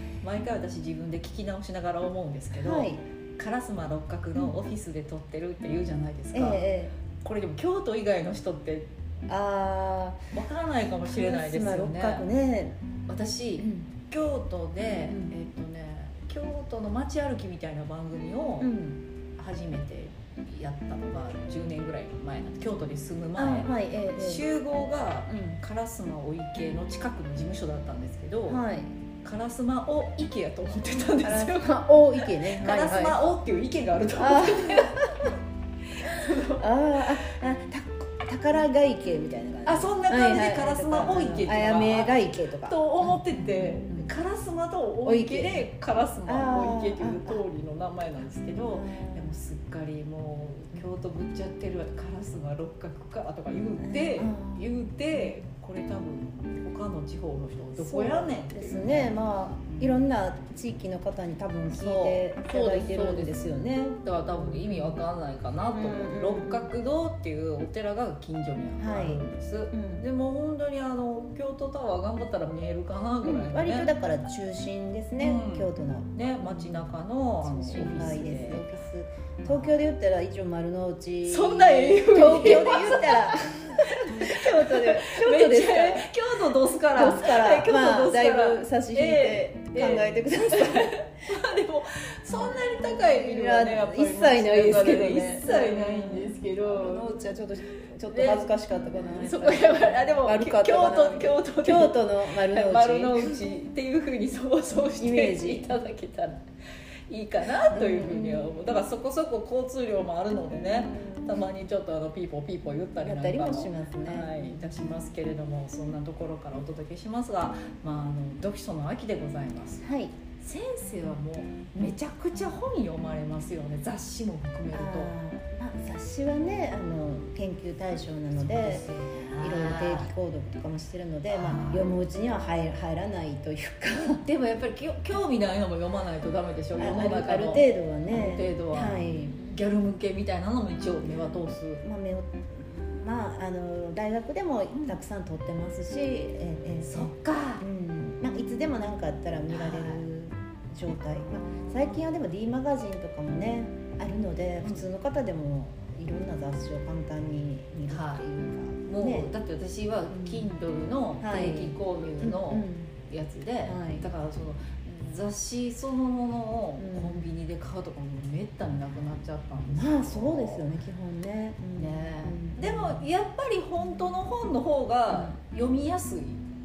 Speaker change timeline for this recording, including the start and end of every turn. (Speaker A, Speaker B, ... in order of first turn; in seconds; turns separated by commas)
Speaker A: 0.2-6.6, Speaker B: 2.5-3.0, Speaker B: 6.3-6.9, Speaker A: 7.2-8.9, Speaker B: 9.3-10.2, Speaker A: 10.3-12.3, Speaker B: 11.1-12.8, Speaker A: 13.1-18.7, Speaker B: 13.6-13.9, Speaker B: 15.1-15.3, Speaker B: 18.6-19.0, Speaker A: 19.4-28.6, Speaker B: 23.4-24.5, Speaker B: 25.3-25.6, Speaker B: 28.5-28.9, Speaker A: 29.2-35.3, Speaker B: 31.2-33.2, Speaker B: 34.2-35.3, Speaker A: 36.0-36.7, Speaker B: 36.5-44.1, Speaker A: 39.7-59.2, Speaker B: 45.0-45.7, Speaker B: 46.2-47.4, Speaker B: 48.7-49.4, Speaker B: 53.8-55.4, Speaker B: 57.8-65.0, Speaker A: 59.7-60.0, Speaker A: 61.7-63.4, Speaker A: 64.0-73.9, Speaker B: 65.7-66.7, Speaker B: 68.8-70.0, Speaker B: 73.2-86.1, Speaker A: 75.2-78.7, Speaker A: 79.4-79.8, Speaker A: 81.2-97.2, Speaker B: 86.8-91.0, Speaker B: 93.0-103.4, Speaker A: 97.7-106.4, Speaker B: 105.0-105.7, Speaker A: 107.1-119.9, Speaker B: 107.7-108.6, Speaker B: 110.9-111.3, Speaker B: 113.0-114.4, Speaker B: 119.8-120.2, Speaker A: 120.4-125.1, Speaker B: 124.7-128.8, Speaker A: 128.4-130.1, Speaker B: 129.4-134.2, Speaker A: 131.3-131.9, Speaker A: 134.2-141.8, Speaker B: 136.8-139.4, Speaker B: 141.8-159.3, Speaker A: 144.7-145.0, Speaker A: 146.8-147.7, Speaker A: 149.5-150.0, Speaker A: 151.3-152.0, Speaker A: 157.9-158.2, Speaker A: 158.8-170.7, Speaker B: 160.1-160.5, Speaker B: 161.2-162.9, Speaker B: 163.7-164.1, Speaker B: 166.8-167.3, Speaker B: 169.7-173.0, Speaker A: 171.8-176.4, Speaker B: 175.1-175.4